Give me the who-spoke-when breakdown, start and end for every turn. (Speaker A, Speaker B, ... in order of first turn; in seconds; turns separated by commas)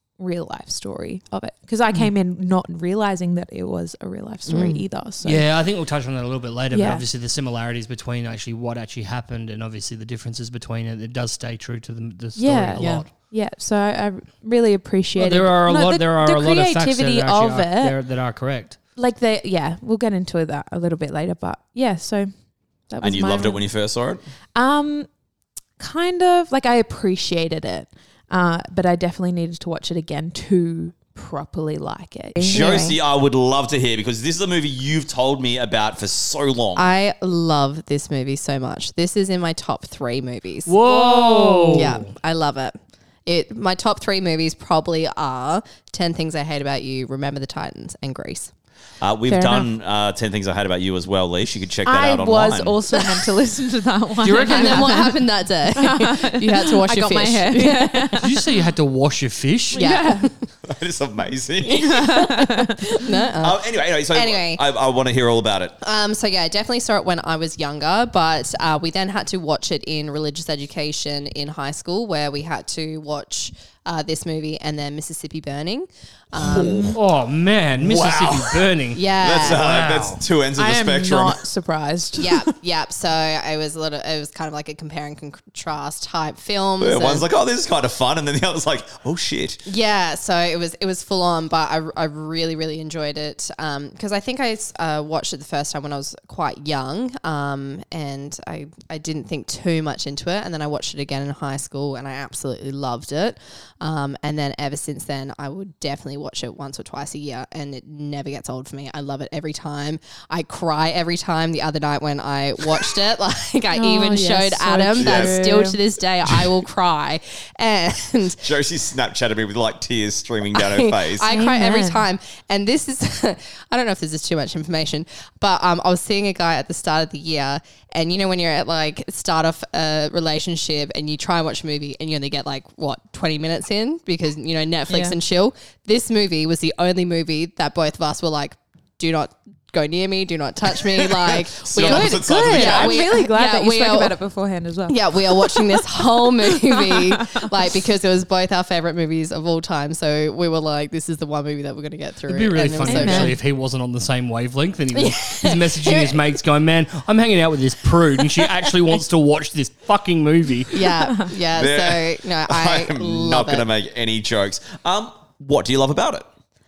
Speaker A: 0.2-5.4, Speaker B: 4.5-4.8, Speaker C: 5.2-13.1, Speaker A: 6.7-7.0, Speaker A: 12.3-17.9, Speaker B: 12.8-13.0, Speaker C: 15.2-18.8, Speaker A: 18.9-22.3, Speaker A: 22.9-23.6, Speaker D: 23.0-24.2, Speaker A: 24.5-25.1, Speaker A: 25.8-32.7, Speaker B: 32.4-33.0, Speaker D: 32.4-36.9, Speaker B: 36.8-40.8, Speaker C: 40.6-42.1, Speaker A: 40.9-41.9, Speaker B: 41.6-48.5, Speaker D: 49.0-52.8, Speaker A: 49.3-49.7, Speaker A: 51.8-58.4, Speaker C: 54.2-55.1, Speaker B: 54.4-58.2, Speaker C: 58.2-59.9, Speaker A: 59.7-60.3, Speaker B: 59.8-60.3, Speaker D: 60.6-61.9, Speaker B: 61.6-63.6, Speaker A: 61.7-63.0, Speaker D: 63.4-65.8, Speaker B: 64.1-64.6, Speaker B: 65.8-76.9, Speaker D: 76.3-77.0, Speaker A: 76.5-77.0, Speaker C: 76.9-80.2, Speaker D: 77.8-81.4, Speaker B: 78.9-79.6, Speaker A: 80.5-82.5, Speaker B: 82.2-87.2, Speaker D: 86.8-89.6, Speaker B: 89.7-118.5, Speaker A: 113.7-115.8, Speaker D: 115.0-115.4, Speaker D: 116.3-116.5, Speaker D: 118.4-121.3, Speaker B: 120.5-144.2, Speaker A: 121.3-122.0, Speaker A: 134.9-135.2, Speaker D: 140.9-143.0, Speaker A: 141.8-147.5, Speaker B: 144.9-153.3, Speaker C: 152.3-160.9, Speaker A: 152.8-153.4, Speaker B: 154.9-156.2, Speaker B: 160.7-163.6, Speaker D: 161.4-166.2